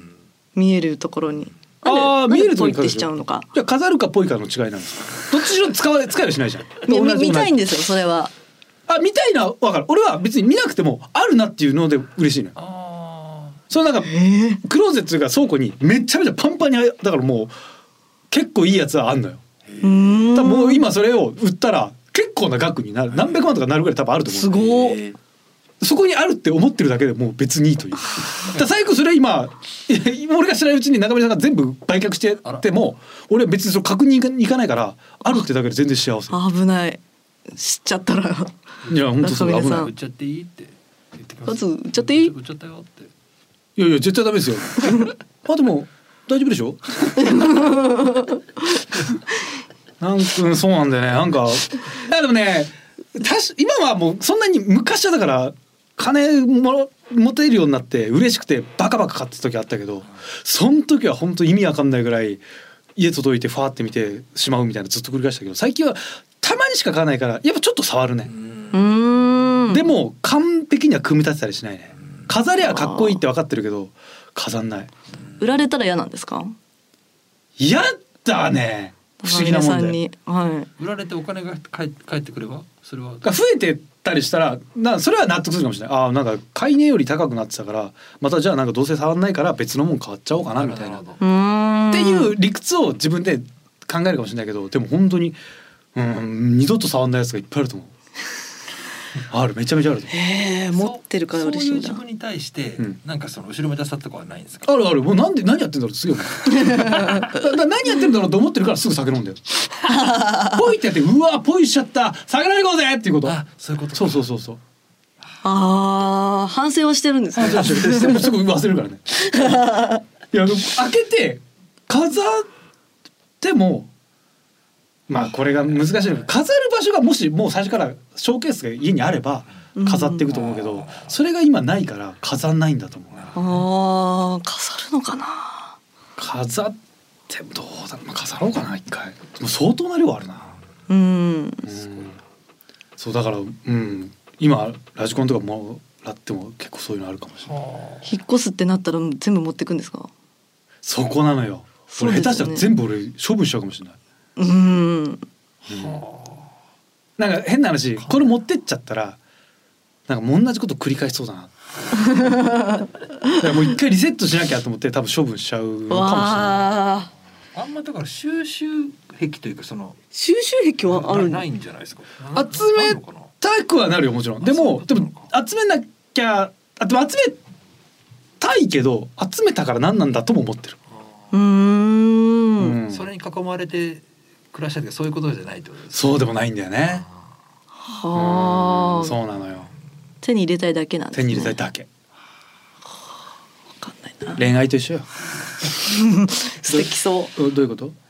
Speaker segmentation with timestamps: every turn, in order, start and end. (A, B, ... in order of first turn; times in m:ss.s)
0:00.5-0:03.5 A
0:01.8-0:07.5 B
0:06.9-0:08.3 A
0:08.9-0:12.5 B
0:12.6-0:13.6 C
0:13.7-0:17.5 B
0:14.0-0:14.6 A
0:18.3-0:19.4 B
0:19.7-0:20.1 C
0:19.8-0:20.8 A
0:20.3-0:25.0 B
0:24.3-0:25.1 A
0:25.8-0:36.4 B
0:36.3-0:37.0 A
0:37.6-0:38.5 A
0:38.9-0:39.9 B
0:39.2-0:39.9 A
0:39.5-0:43.1 C
0:41.4-0:42.3 A
0:43.8-0:47.6 B
0:47.2-0:48.4 A
0:50.0-1:02.4 B
1:03.0-1:08.3 B
1:08.3-1:08.8 C
1:08.7-1:09.9 A
1:09.7-1:14.9 B
1:12.6-1:13.2 A
1:15.4-1:16.6 A
1:17.6-1:20.0 B
1:19.2-1:20.7 A
1:20.8-1:23.3 C
1:23.2-1:31.0 B
1:30.5-1:31.2 C
1:31.2-1:32.3 A
1:31.9-1:35.4 B
1:35.9-1:37.9 B
1:39.3-1:40.1 B
1:40.1-1:42.0 A
1:40.7-1:44.7 C
1:44.6-1:49.4 B
1:46.5-1:47.3 A
1:49.8-1:50.6 A
1:50.3-1:53.4 B
1:53.2-1:54.2 C
1:53.9-1:54.6 B
1:55.4-1:58.3 A
1:57.4-1:59.7 B
1:59.1-2:00.0 A
2:00.3-2:02.5 B
2:03.4-2:03.9 B
2:05.1-2:13.3 B
2:09.8-2:10.4 A
2:10.3-2:11.1 C
2:13.1-2:13.6 C
2:13.3-2:15.7 A
2:16.2-2:16.8 B
2:17.3-2:20.5 B
2:20.9-2:21.7 A
2:21.6-2:22.2 B
2:23.0-2:27.5 B
2:27.5-2:28.1 C
2:28.0-2:30.1 A
2:30.8-2:34.0 B
2:31.9-2:32.7 A
2:34.4-2:35.2 A
2:35.7-2:36.0 B
2:35.7-2:36.5 C
2:37.2-2:39.2 B
2:40.1-2:42.2 B
2:42.0-2:43.4 A
2:43.4-2:46.6 B
2:45.9-2:47.1 A
2:47.5-2:50.0 C
2:50.1-2:51.4 A
2:50.9-2:53.3 C
2:52.3-2:57.4 B
2:54.4-2:55.3 C
2:58.4-3:00.8 B
3:01.3-3:02.8 A
3:02.6-3:03.0 B
3:02.9-3:06.2 C
3:05.9-3:07.0 B
3:07.8-3:09.2 A
3:08.1-3:09.7 B
3:10.2-3:11.6 A
3:11.1-3:11.9 B
3:13.8-3:14.4 A
3:14.3-3:15.1 B
3:15.8-3:17.3 A
3:16.6-3:17.9 B